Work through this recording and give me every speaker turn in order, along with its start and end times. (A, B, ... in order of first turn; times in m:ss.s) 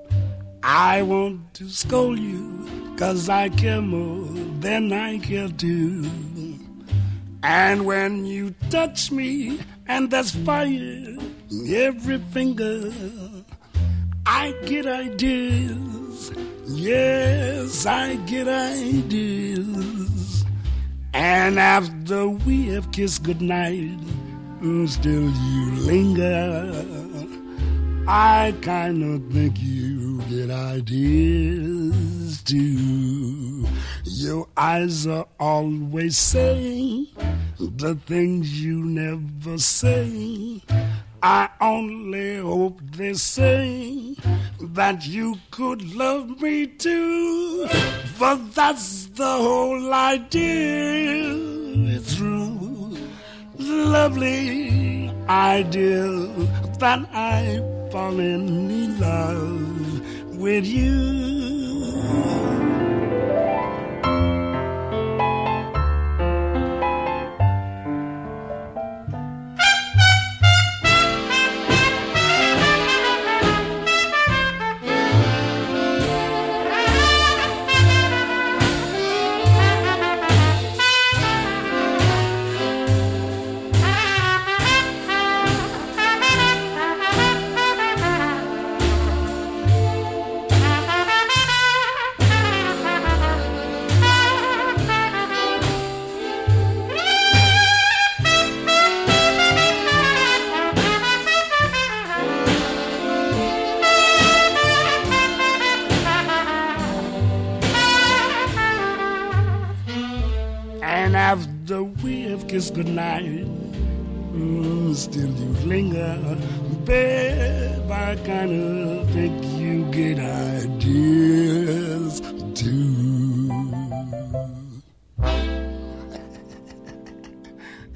0:00.6-0:06.6 A
0:07.4-0:13.4 A
0:14.2-0:20.5 A
0:21.1-0:27.4 A
0:28.0-0:40.6 A
0:41.2-1:02.6 A
1:50.8-1:53.8 A
1:54.3-2:04.8 A